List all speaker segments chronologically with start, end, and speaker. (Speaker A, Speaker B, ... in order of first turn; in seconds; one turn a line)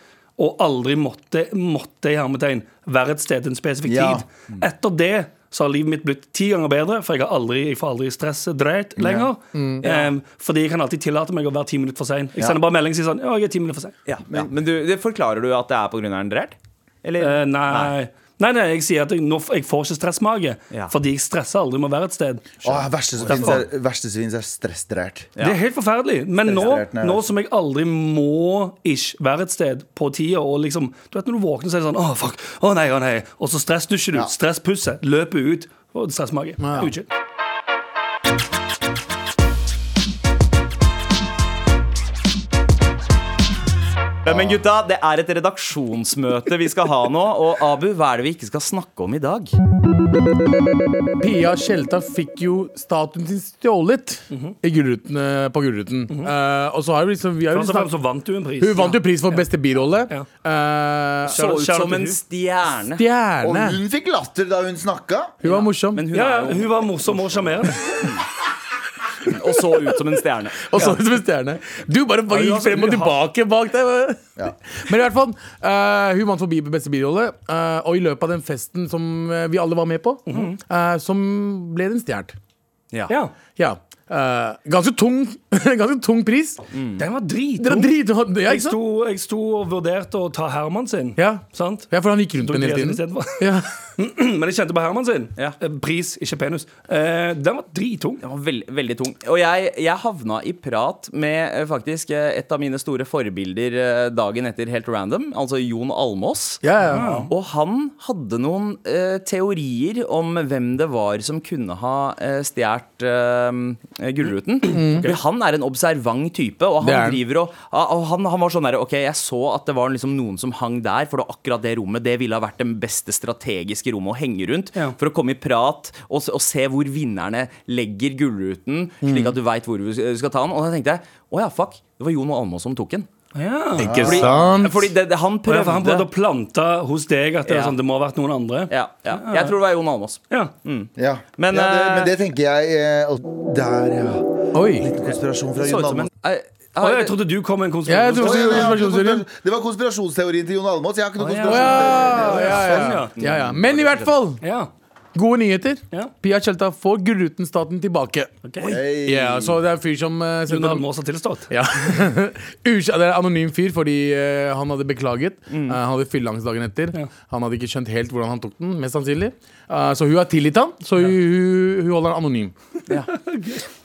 Speaker A: 0.4-13.9
Speaker B: 3.8-4.2
Speaker B: 9.0-9.3
Speaker C: 9.5-9.8
Speaker D: 9.8-10.1
Speaker D: 14.1-17.9
Speaker A: 17.2-22.6
Speaker B: 22.6-25.3
Speaker A: 23.2-23.6
Speaker A: 25.4-37.1
Speaker B: 26.4-27.2
Speaker C: 36.6-36.9
Speaker D: 44.2-49.5
Speaker C: 51.2-57.9
Speaker A: 54.3-54.5
Speaker A: 57.5-59.5
Speaker C: 58.6-61.5
Speaker D: 61.2-63.0
Speaker A: 61.3-62.2
Speaker C: 63.0-63.8
Speaker B: 63.4-65.3
Speaker C: 65.4-66.0
Speaker D: 65.4-68.1
Speaker A: 66.1-67.9
Speaker D: 69.3-70.9
Speaker C: 70.6-82.3
Speaker A: 72.3-73.1
Speaker A: 80.3-80.6
Speaker A: 83.1-83.3
Speaker C: 83.5-86.6
Speaker D: 86.7-87.0
Speaker A: 87.0-98.2
Speaker C: 87.6-88.8
Speaker C: 91.2-93.7
Speaker D: 98.2-133.1
Speaker C: 106.6-107.2
Speaker A: 106.8-107.3
Speaker C: 114.7-115.1
Speaker A: 114.9-115.2
Speaker C: 116.8-117.2
Speaker C: 129.0-129.3
Speaker A: 133.3-134.2
Speaker B: 133.8-134.3
Speaker C: 133.8-134.9
Speaker D: 134.0-136.1
Speaker A: 135.5-139.6
Speaker D: 137.4-137.8
Speaker D: 138.7-142.1
Speaker B: 141.0-146.1
Speaker C: 144.5-144.9
Speaker D: 145.6-147.2
Speaker A: 146.8-148.8
Speaker C: 147.8-149.2
Speaker B: 148.2-152.9
Speaker A: 151.2-153.2
Speaker C: 151.4-154.4
Speaker D: 153.2-154.1
Speaker A: 154.4-154.7
Speaker C: 155.1-158.3
Speaker A: 158.4-158.8
Speaker B: 158.6-159.6
Speaker C: 159.0-160.9
Speaker A: 160.5-161.5
Speaker C: 161.5-172.5
Speaker D: 165.5-165.8
Speaker D: 172.9-173.1
Speaker A: 173.1-173.6